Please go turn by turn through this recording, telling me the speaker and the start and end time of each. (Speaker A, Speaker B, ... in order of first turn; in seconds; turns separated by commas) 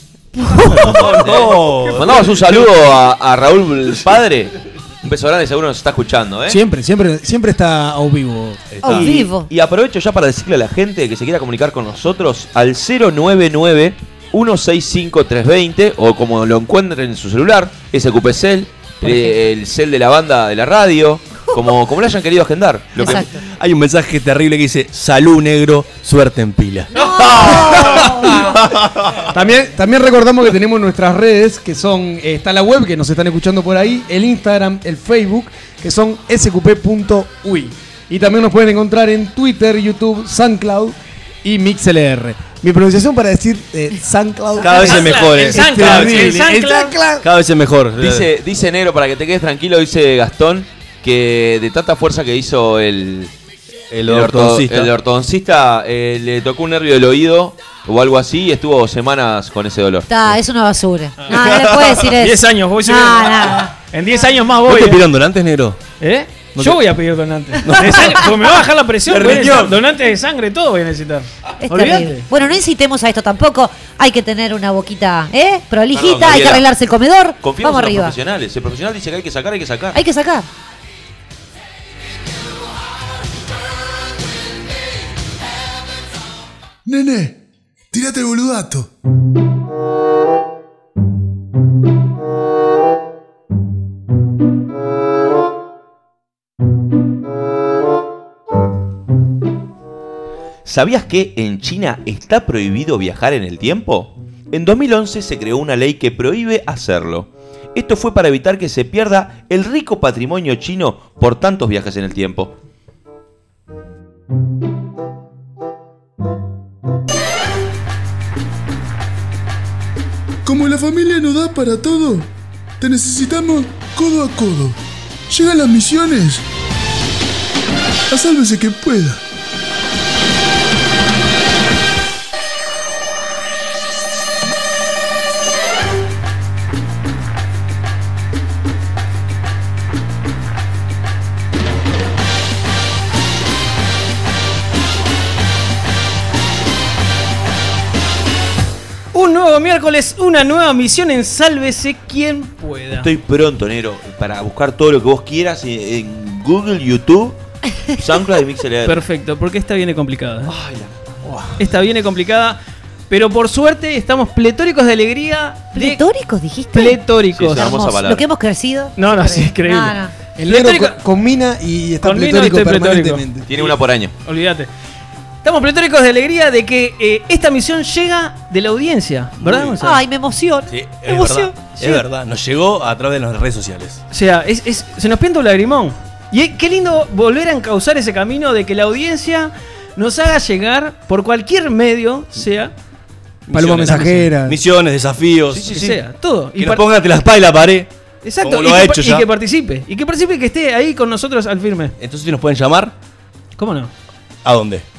Speaker A: 0.3-1.0, Speaker B: 0.6-2.7, Speaker C: 0.7-1.0, Speaker D: 1.9-6.6, Speaker E: 6.5-8.7, Speaker B: 8.7-9.1, Speaker A: 8.8-9.5, Speaker D: 8.8-23.2, Speaker A: 23.0-23.4, Speaker B: 23.0-29.3, Speaker A: 26.9-28.6, Speaker E: 29.3-47.3, Speaker B: 44.6-46.4, Speaker C: 44.6-47.0, Speaker B: 47.2-48.3, Speaker D: 48.0-53.3, Speaker B: 53.9-54.9, Speaker D: 54.1-60.1, Speaker A: 60.1-63.7, Speaker B: 61.5-61.9, Speaker C: 62.2-65.0, Speaker B: 64.7-65.8, Speaker C: 66.0-72.3, Speaker B: 66.5-66.8, Speaker B: 67.6-68.3, Speaker B: 69.1-69.8, Speaker A: 71.6-78.2, Speaker D: 75.9-76.7, Speaker D: 77.4-80.0, Speaker A: 79.9-80.5, Speaker F: 86.8-87.4, Speaker F: 87.9-88.9, Speaker D: 100.7-112.5, Speaker F: 120.5-124.8, Speaker F: 125.3-126.4, Speaker F: 128.1-129.2, Speaker C: 149.1-153.1, Speaker D: 153.0-157.4, Speaker D: 157.9-159.0, Speaker C: 158.9-160.5, Speaker D: 160.5-160.9, Speaker C: 161.6-162.6, Speaker C: 163.1-166.0, Speaker A: 165.7-170.1, Speaker C: 166.7-167.8, Speaker D: 167.3-168.2, Speaker C: 169.0-171.0, Speaker E: 170.4-173.5, Speaker C: 172.0-174.7, Speaker D: 173.5-174.1, Speaker C: 175.4-180.0, Speaker B: 179.4-179.8, Speaker A: 179.8-182.0, Speaker B: 180.7-184.0, Speaker C: 184.1-192.7, Speaker B: 193.5-195.8, Speaker E: 193.5-194.6, Speaker D: 195.5-196.0, Speaker C: 195.7-196.8, Speaker B: 196.6-197.9, Speaker C: 198.2-201.9, Speaker B: 198.4-199.3, Speaker B: 202.0-202.9, Speaker C: 203.6-203.9, Speaker B: 204.4-204.8